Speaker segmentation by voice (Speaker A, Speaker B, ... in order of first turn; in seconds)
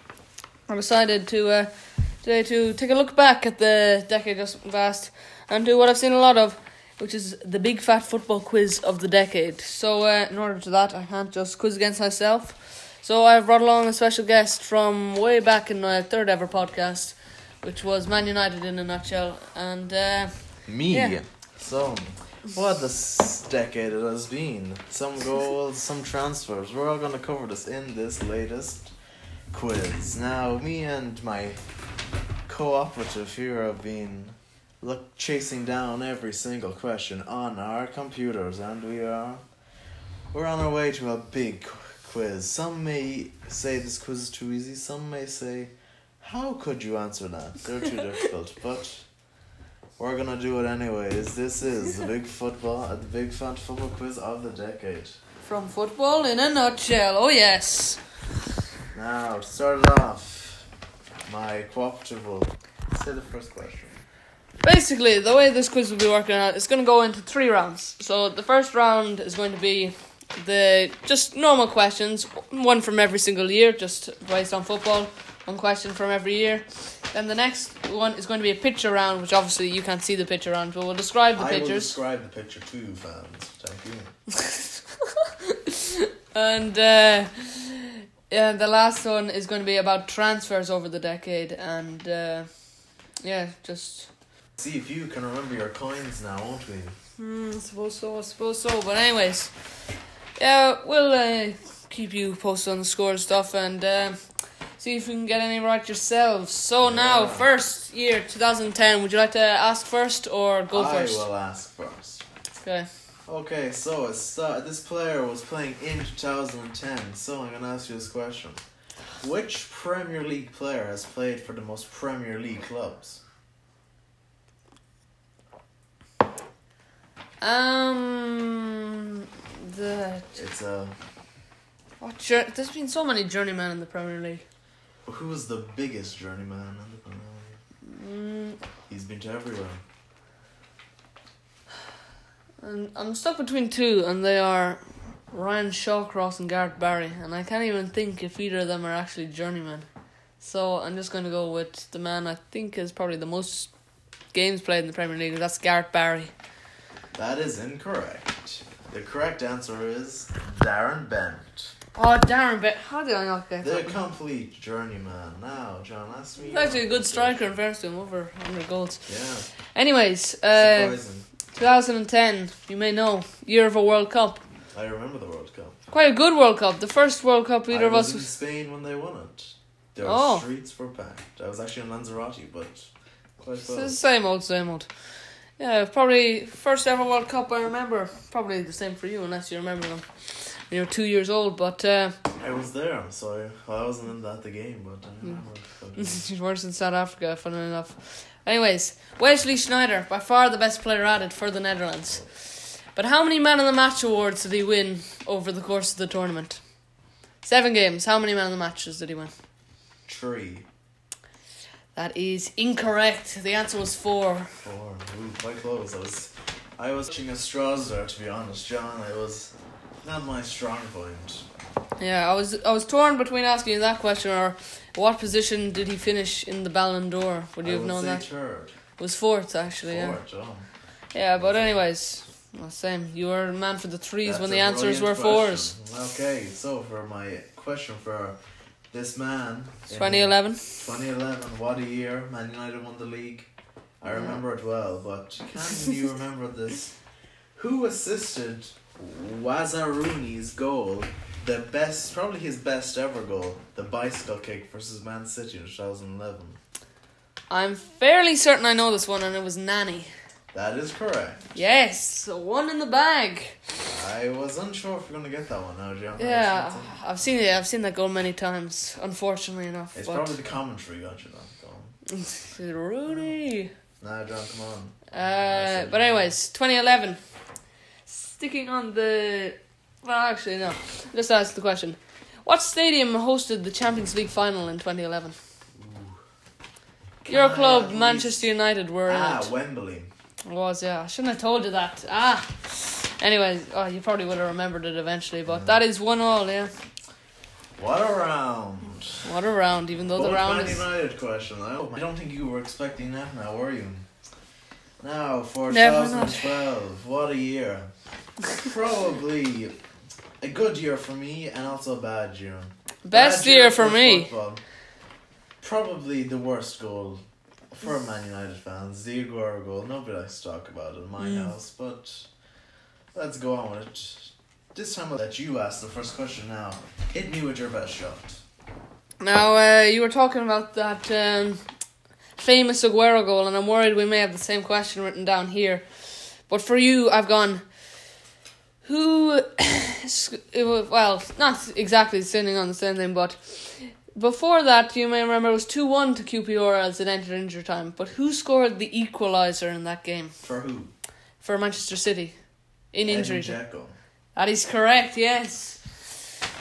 Speaker A: 0.7-21.2, 55.4-58.0, 64.6-82.0, 84.3-92.5, 93.2-94.1, 97.2-99.5, 100.4-104.2, 104.8-111.2, 127.4-130.4, 132.0-134.4, 137.9-138.6, 142.6-149.9, 150.4-153.7, 154.3-156.3, 161.9-164.0, 166.4-169.1, 169.7-171.0, 171.5-174.4, 175.9-178.3, 180.0-180.4, 183.6-184.9, 185.6-192.2, 196.0-206.6, 207.4-209.3, 211.9-214.6, 222.0-228.3, 229.0-230.2, 231.1-235.7, 239.9-240.8, 257.5-260.1, 261.5-263.6, 266.2-270.3, 272.1-273.7, 275.1-277.2, 278.1-285.4, 287.2-289.5, 290.5-296.7, 299.2-300.9, 305.7-306.6, 313.1-314.3, 321.2-321.5, 329.2-331.6, 332.4-335.9, 336.5-337.6, 338.8-350.3, 351.4-352.4, 352.9-353.6, 354.4-356.0
Speaker B: 20.7-28.9, 29.5-31.6, 32.5-39.4, 40.3-49.0, 50.0-55.2, 58.9-60.7, 61.3-64.0, 81.3-84.2, 94.6-97.0, 106.8-107.5, 110.7-112.2, 113.3-118.6, 119.2-123.2, 130.3-131.0, 135.1-137.6, 138.9-139.8, 157.1-161.7, 163.6-167.5, 169.1-169.5, 170.5-171.3, 174.7-175.8, 177.7-184.0, 192.4-196.2, 210.1-210.7, 214.6-219.5, 220.0-221.5, 227.6-228.8, 229.8-230.7, 231.4-231.8, 234.2-238.4, 238.9-243.5, 244.0-246.9, 247.6-256.6, 260.5-261.4, 263.9-267.0, 269.9-271.9, 273.1-273.3, 274.0-276.3, 285.8-286.2, 287.2-288.4, 289.1-290.1, 295.5-295.8, 297.8-299.3, 300.1-304.1, 305.0-307.9, 308.5-309.8, 310.4-314.6, 315.6-317.2, 317.8-322.3, 323.1-328.4, 350.4-350.9, 353.0-354.0